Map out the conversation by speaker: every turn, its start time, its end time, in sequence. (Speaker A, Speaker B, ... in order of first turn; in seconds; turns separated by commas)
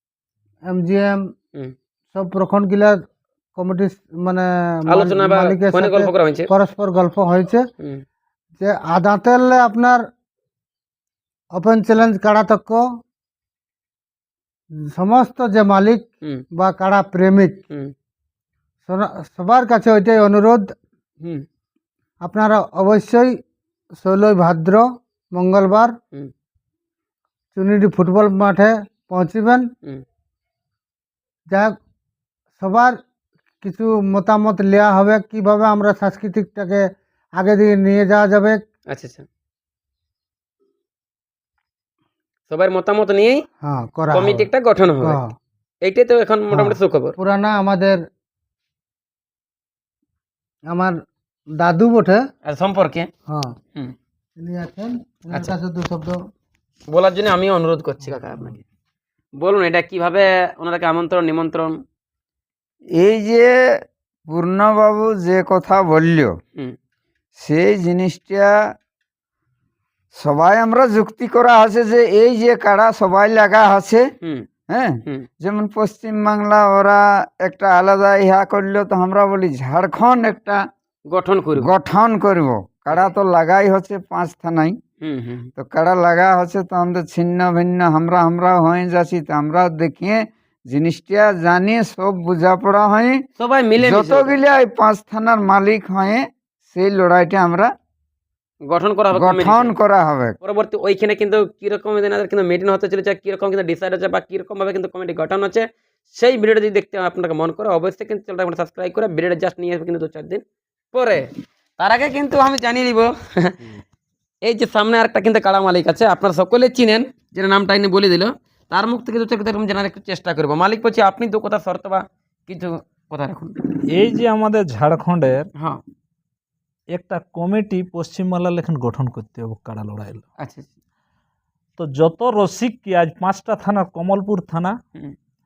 Speaker A: 0.7-1.2, Speaker A: 2.1-3.0, Speaker A: 3.5-7.6, Speaker B: 4.9-6.5, Speaker A: 8.6-10.0, Speaker A: 11.5-12.8, Speaker A: 14.9-17.6, Speaker A: 18.9-20.7, Speaker A: 22.2-23.4, Speaker A: 24.0-25.9, Speaker A: 27.5-29.6, Speaker A: 31.5-31.7, Speaker A: 32.6-32.9, Speaker A: 33.6-36.8, Speaker A: 37.4-38.6, Speaker B: 38.9-39.2, Speaker B: 42.5-43.4, Speaker A: 43.6-44.5, Speaker B: 44.1-45.2, Speaker A: 45.0-45.3, Speaker B: 45.8-47.1, Speaker A: 46.5-48.0, Speaker A: 51.6-52.2, Speaker B: 52.4-53.1, Speaker A: 54.4-56.2, Speaker B: 56.9-58.6, Speaker B: 59.4-61.8, Speaker C: 63.0-63.5, Speaker C: 64.3-66.3, Speaker C: 67.4-68.5, Speaker C: 70.2-74.0, Speaker C: 74.7-80.6, Speaker B: 81.1-81.7, Speaker C: 81.6-84.8, Speaker B: 82.9-83.1, Speaker B: 85.0-85.5, Speaker C: 85.6-93.2, Speaker B: 93.4-94.4, Speaker C: 93.8-97.7, Speaker B: 98.7-99.7, Speaker C: 99.1-100.3, Speaker B: 100.4-113.7, Speaker B: 114.4-123.5, Speaker D: 123.9-125.5, Speaker D: 126.9-130.2, Speaker B: 130.4-130.7, Speaker D: 131.8-134.8